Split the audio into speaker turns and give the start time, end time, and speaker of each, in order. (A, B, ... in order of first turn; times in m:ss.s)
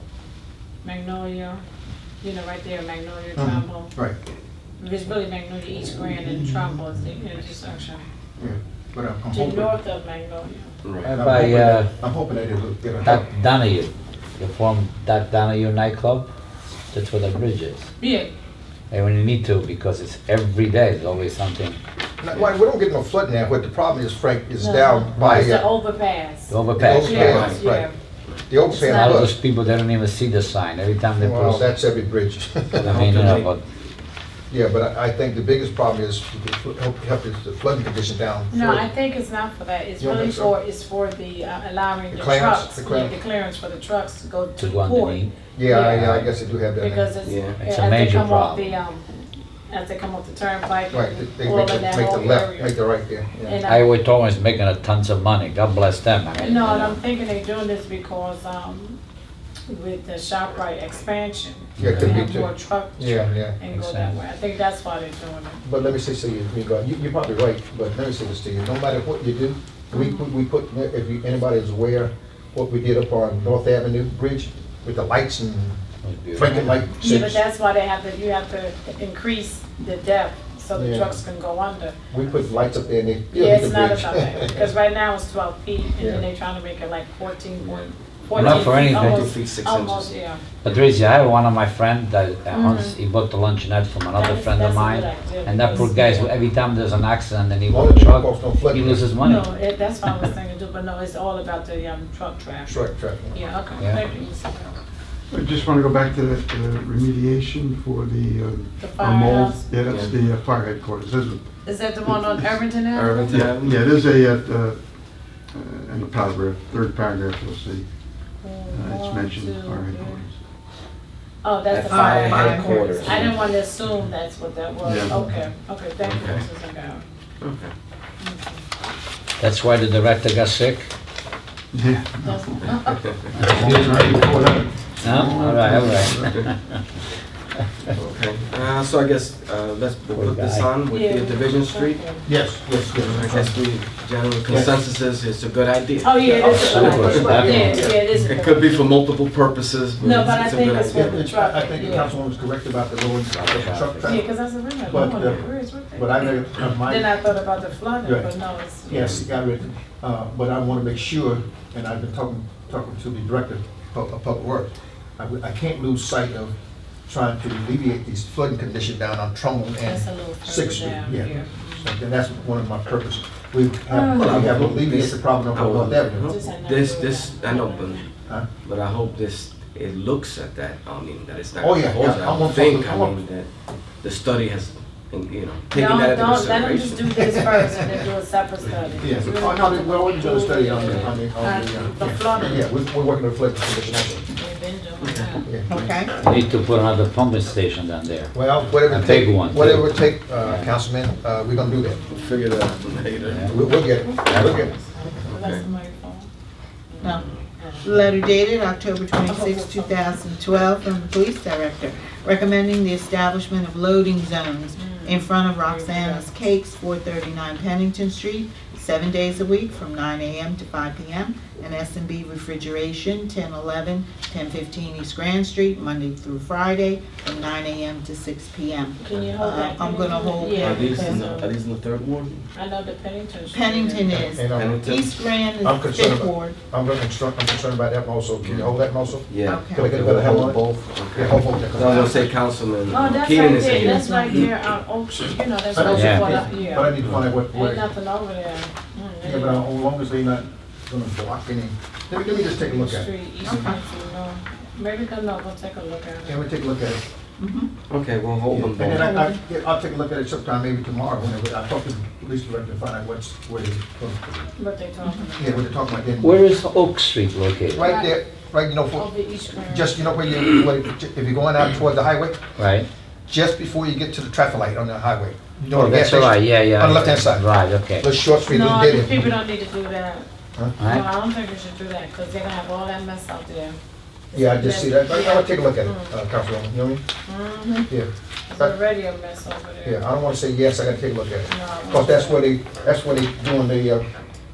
0:00.8-0:01.6 A
0:02.2-0:03.9 A
0:03.4-0:04.1 B
0:04.8-0:08.0 A
0:08.4-0:09.7 B
0:09.3-0:10.7 A
0:10.8-0:11.1 C
0:11.0-0:13.2 B
0:11.1-0:11.9 D
0:13.0-0:16.2 D
0:16.9-0:17.9 D
0:18.0-0:18.3 A
0:18.9-0:21.8 D
0:22.2-0:25.6 B
0:24.6-0:27.9 A
0:25.2-0:25.5 D
0:26.5-0:27.5 D
0:26.7-0:27.8 B
0:27.1-0:27.6 C
0:28.5-0:29.3 B
0:28.7-0:29.2 A
0:28.8-0:31.6 D
0:31.2-0:32.9 B
0:32.8-0:33.6 D
0:32.8-0:33.5 C
0:34.5-0:38.9 B
0:38.5-0:46.3 A
0:40.0-0:40.5 B
0:42.1-0:43.1 B
0:44.6-0:46.2 D
0:45.5-0:47.1 B
0:46.8-0:49.0 A
0:47.2-0:47.6 C
0:47.6-0:48.7 D
0:49.7-0:52.7 A
0:50.9-0:53.6 B
0:53.4-0:53.8 A
0:53.6-0:56.9 D
0:56.4-0:59.0 A
0:56.6-0:56.9 C
0:59.7-1:05.6 A
1:01.8-1:02.2 D
1:01.8-1:03.6 B
1:03.7-1:04.1 D
1:05.6-1:15.8 B
1:09.9-1:10.2 A
1:16.0-1:16.8 D
1:16.3-1:17.4 B
1:17.0-1:22.0 A
1:20.7-1:21.2 B
1:22.1-1:24.7 B
1:23.3-1:30.4 A
1:26.0-1:26.2 B
1:27.6-1:30.1 C
1:28.3-1:29.3 D
1:30.6-1:39.5 D
1:32.5-1:33.0 A
1:34.1-1:36.3 A
1:37.7-1:39.0 B
1:39.2-1:44.8 A
1:42.6-1:43.4 B
1:45.3-1:51.4 E
1:48.8-1:49.6 A
1:49.8-1:50.1 C
1:51.6-1:53.4 A
1:52.0-1:52.4 E
1:52.9-1:53.8 C
1:53.3-1:54.8 E
1:55.5-1:57.9 E
1:58.4-2:00.2 A
1:58.7-2:00.3 E
2:01.4-2:07.0 A
2:01.7-2:03.4 C
2:01.9-2:02.9 F
2:04.8-2:05.2 E
2:05.1-2:05.3 B
2:06.0-2:06.4 C
2:07.4-2:07.7 C
2:08.2-2:08.6 A
2:09.4-2:10.9 D
2:11.7-2:12.2 E
2:12.2-2:13.9 A
2:12.6-2:13.3 C
2:13.4-2:14.0 D
2:13.5-2:16.3 E
2:13.7-2:14.6 B
2:15.0-2:16.8 D
2:18.0-2:22.0 C
2:20.1-2:20.7 D
2:20.9-2:22.2 A
2:22.2-2:23.6 B
2:23.0-2:27.6 C
2:24.5-2:24.8 B
2:26.0-2:29.0 A
2:26.4-2:28.0 B
2:26.4-2:27.9 D
2:28.1-2:31.2 C
2:30.0-2:32.1 A
2:30.8-2:37.1 B
2:33.3-2:34.1 D
2:34.0-2:39.1 A
2:35.1-2:35.4 C
2:38.0-2:38.3 B
2:38.8-2:46.5 B
2:38.9-2:39.3 C
2:47.1-2:56.4 B
2:49.8-2:51.9 A
2:53.9-2:54.3 A
2:54.1-2:58.1 C
2:56.2-2:58.0 A
2:58.6-3:07.2 C
3:01.6-3:03.2 B
3:05.7-3:12.6 A
3:07.2-3:07.7 B
3:09.0-3:14.2 B
3:10.8-3:11.1 C
3:14.4-3:15.5 A
3:15.0-3:15.3 C
3:15.7-3:16.2 F
3:16.2-3:20.7 D
3:18.3-3:22.0 B
3:22.1-3:23.5 C
3:23.2-3:23.6 D
3:23.5-3:24.7 B
3:24.2-3:24.7 D
3:24.5-3:26.3 A
3:25.3-3:25.6 C
3:26.9-3:27.9 A
3:27.1-3:27.4 C
3:27.8-3:51.3 F
3:29.2-3:30.0 A
3:34.8-3:36.3 A
3:49.0-3:51.5 A
3:50.6-3:52.5 C
3:52.5-3:54.3 A
3:53.5-3:56.6 F
3:54.1-3:54.8 B
3:54.5-3:55.2 C
3:55.6-4:02.3 B
3:58.4-4:04.5 C
3:59.4-4:00.0 F
4:02.9-4:07.0 A
4:03.8-4:04.5 F
4:05.7-4:07.9 B
4:05.9-4:06.3 D
4:07.0-4:07.4 C
4:07.5-4:09.7 A
4:09.2-4:13.1 B
4:12.5-4:16.4 A
4:13.4-4:13.8 F
4:16.2-4:17.0 B
4:17.4-4:17.7 F
4:17.9-4:19.1 C
4:18.5-4:24.5 B
4:19.0-4:19.4 F
4:24.6-4:25.7 A
4:25.4-4:26.4 B
4:26.2-4:27.9 D
4:27.7-4:29.1 B
4:27.8-4:28.2 A
4:28.9-4:30.1 A
4:29.6-4:32.4 B
4:32.6-4:32.9 D
4:33.3-4:37.5 B
4:35.7-4:38.1 D
4:38.0-4:39.3 B
4:38.4-4:40.3 A
4:40.8-4:41.0 D
4:40.8-4:43.8 A
4:44.3-4:46.1 A
4:44.3-4:47.0 B
4:47.3-4:47.9 A
4:47.9-4:48.7 B
4:48.5-4:50.0 A
4:49.8-4:54.0 B
4:51.5-4:52.4 A